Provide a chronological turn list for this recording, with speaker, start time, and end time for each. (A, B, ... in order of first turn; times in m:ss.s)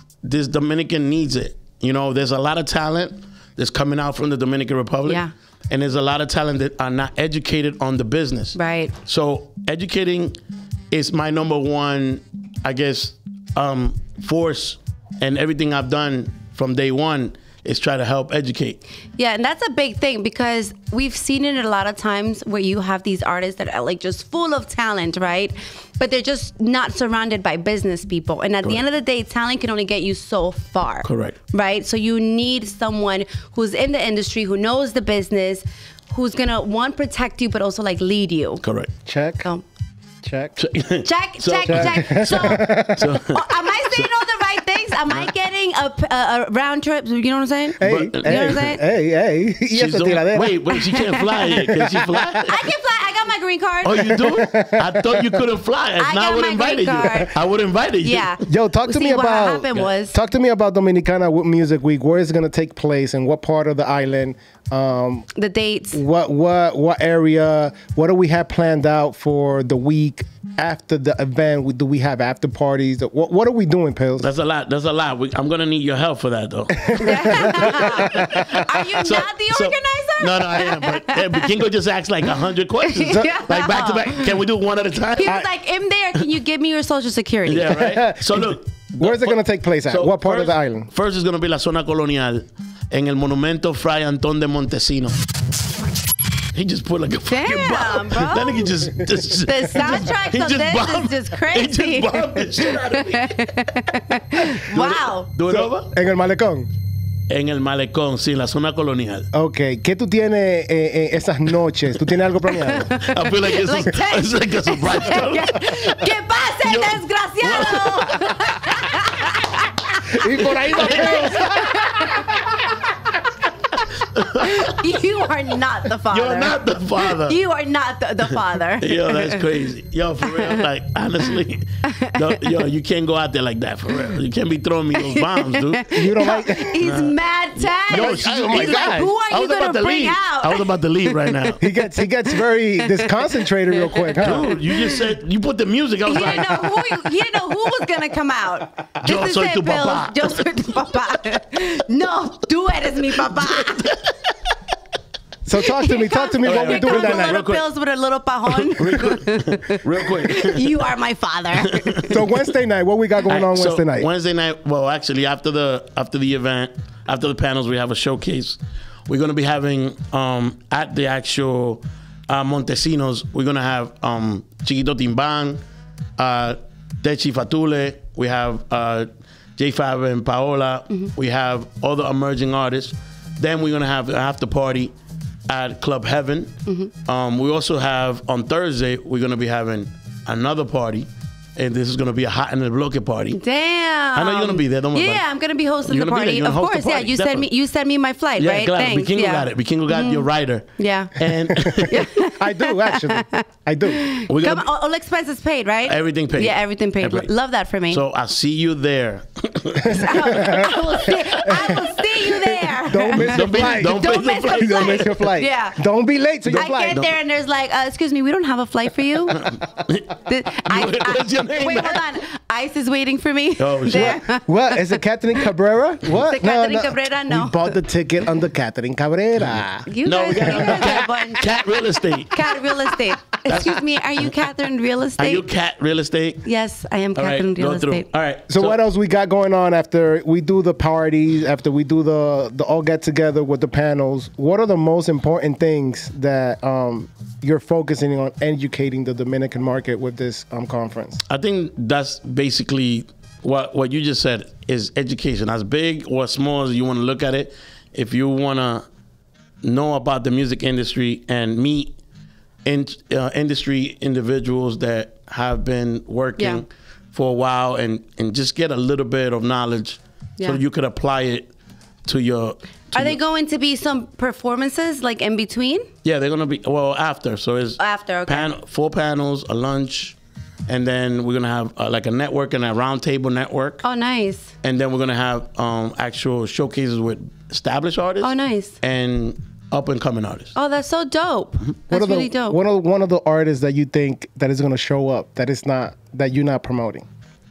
0:00.2-0:10.4 A
0:05.0-0:05.3 B
0:08.5-0:08.9 B
0:10.9-0:18.8 A
0:19.2-0:38.6 B
0:31.0-0:31.4 A
0:38.6-0:38.9 A
0:39.0-0:39.5 C
0:40.2-0:40.6 C
0:40.6-0:44.1 A
0:41.0-0:42.7 B
0:41.7-0:43.2 C
0:43.3-0:48.8 B
0:47.8-0:48.7 A
0:47.8-0:50.6 C
0:49.7-0:52.6 A
0:50.7-0:51.5 B
0:51.7-0:52.4 C
0:52.5-0:54.2 B
0:53.8-0:58.3 A
0:54.1-0:55.4 C
0:56.0-0:57.4 B
0:58.0-1:00.1 B
0:58.5-1:05.3 C
1:05.4-1:06.0 B
1:05.9-1:14.3 C
1:14.2-1:25.3 A
1:16.8-1:18.5 C
1:17.0-1:21.5 B
1:22.8-1:24.3 B
1:25.1-1:27.8 B
1:27.4-1:35.2 A
1:27.7-1:30.9 C
1:36.5-1:43.5 A
1:37.3-1:38.7 B
1:39.4-1:45.3 B
1:44.5-1:45.9 A
1:45.5-1:46.7 C
1:47.3-1:49.3 A
1:49.3-1:52.9 C
1:52.5-1:55.7 A
1:52.8-2:02.7 B
1:56.6-1:58.2 A
2:00.1-2:02.3 C
2:00.2-2:01.7 A
2:03.8-2:04.8 A
2:04.4-2:09.4 B
2:06.1-2:07.4 A
2:08.8-2:16.0 A
2:10.2-2:10.6 B
2:11.8-2:12.3 B
2:14.9-2:21.5 B
2:15.9-2:16.8 C
2:16.8-2:17.1 A
2:17.9-2:21.6 A
2:17.9-2:19.1 C
2:21.6-2:24.5 C
2:23.9-2:25.0 B
2:24.2-2:27.0 A
2:26.0-2:33.9 B
2:29.0-2:30.4 A
2:33.3-2:33.9 A
2:35.4-2:37.5 C
2:35.8-2:42.0 B
2:36.4-2:37.6 A
2:38.5-2:40.8 A
2:41.6-2:42.3 A
2:42.1-2:44.1 C
2:43.3-2:55.6 A
2:56.2-3:04.9 A
3:05.5-3:06.5 A
3:07.0-3:13.4 A
3:13.4-3:21.2 B
3:14.1-3:15.2 A
3:15.8-3:17.5 A
3:18.4-3:22.0 A
3:21.5-3:24.1 C
3:21.8-3:28.0 B
3:24.3-3:24.7 A
3:25.8-3:27.3 A
3:27.9-3:32.5 A
3:29.8-3:30.8 C
3:30.0-3:35.8 B
3:31.5-3:31.7 C
3:32.9-3:37.1 C
3:33.2-3:35.2 A
3:36.4-3:36.8 A
3:36.5-3:39.5 B
3:39.3-3:42.0 A
3:40.2-3:44.8 B
3:43.6-3:44.2 A
3:43.9-3:51.1 C
3:46.1-3:47.7 B
3:49.4-3:52.5 A
3:49.9-3:51.7 B
3:52.2-3:55.5 B
3:53.5-3:54.3 A
3:55.2-3:56.4 A
3:56.4-3:58.1 B
3:57.1-3:58.8 A
3:58.5-4:11.2 C
4:11.3-4:18.8 A
4:19.6-4:22.0 A
4:22.6-4:31.5 A
4:26.4-4:26.6 B
4:32.0-4:33.2 A
4:32.9-4:35.9 B
4:36.0-4:40.2 A
4:37.8-4:38.5 B
4:40.7-4:43.8 A
4:43.8-4:44.5 B
4:44.6-4:50.5 A
4:48.2-4:48.8 B
4:50.5-4:52.6 B
4:51.9-4:57.0 C